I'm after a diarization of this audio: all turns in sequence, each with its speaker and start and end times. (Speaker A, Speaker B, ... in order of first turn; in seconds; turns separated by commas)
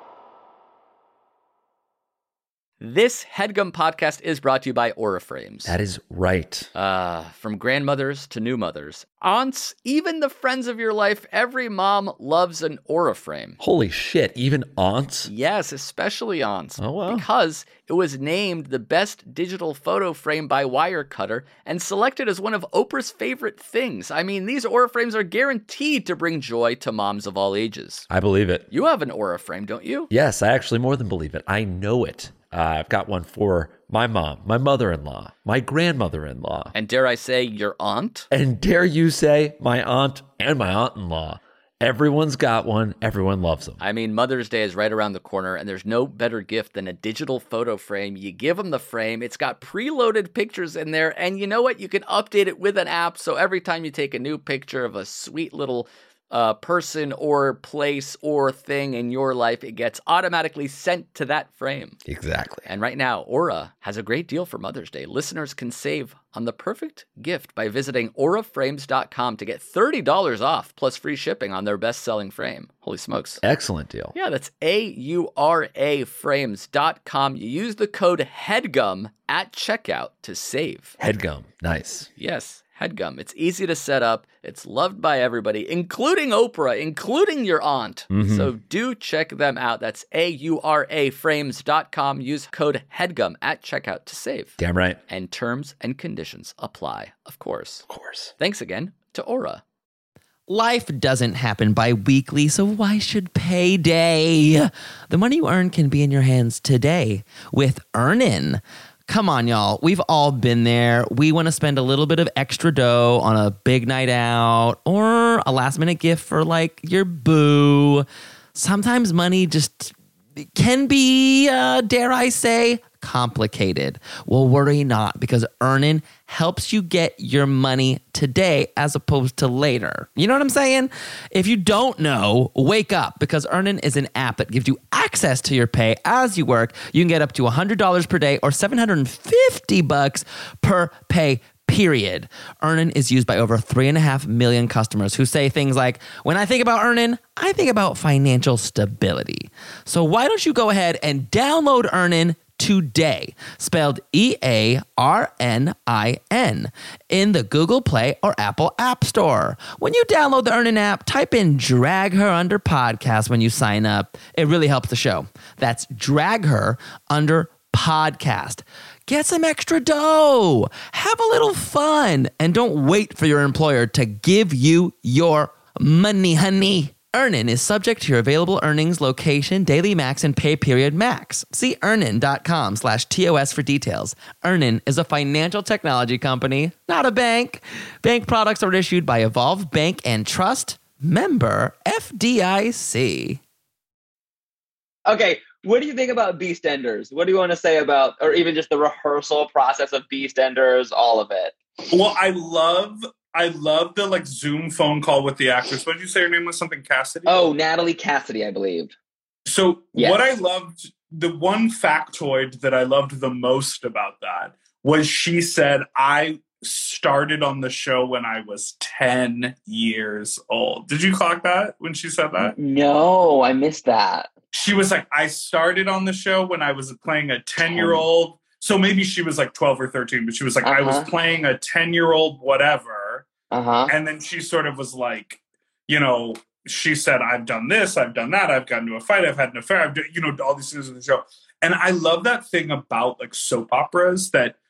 Speaker A: 2.8-5.8, Speaker B: 5.7-6.7, Speaker A: 6.7-13.6, Speaker B: 13.6-15.3, Speaker A: 15.2-28.1, Speaker B: 16.8-17.3, Speaker B: 28.1-28.6, Speaker A: 28.7-30.1, Speaker B: 30.1-36.7, Speaker A: 36.7-38.2, Speaker B: 38.3-43.8, Speaker A: 43.8-62.0, Speaker B: 62.0-62.6, Speaker A: 62.6-73.4, Speaker B: 73.4-74.1, Speaker A: 74.1-81.0, Speaker B: 81.0-82.1, Speaker A: 82.2-94.5, Speaker B: 88.1-88.5, Speaker B: 94.6-95.0, Speaker A: 95.1-97.8, Speaker B: 97.9-98.3, Speaker A: 98.4-99.6, Speaker C: 100.5-193.4, Speaker D: 195.1-201.5, Speaker E: 201.9-207.4, Speaker D: 207.2-208.9, Speaker E: 209.4-222.5, Speaker D: 209.9-210.3, Speaker D: 222.4-224.3, Speaker E: 224.5-233.3, Speaker D: 227.7-228.0, Speaker D: 230.6-231.1, Speaker D: 233.5-233.9, Speaker E: 233.9-244.6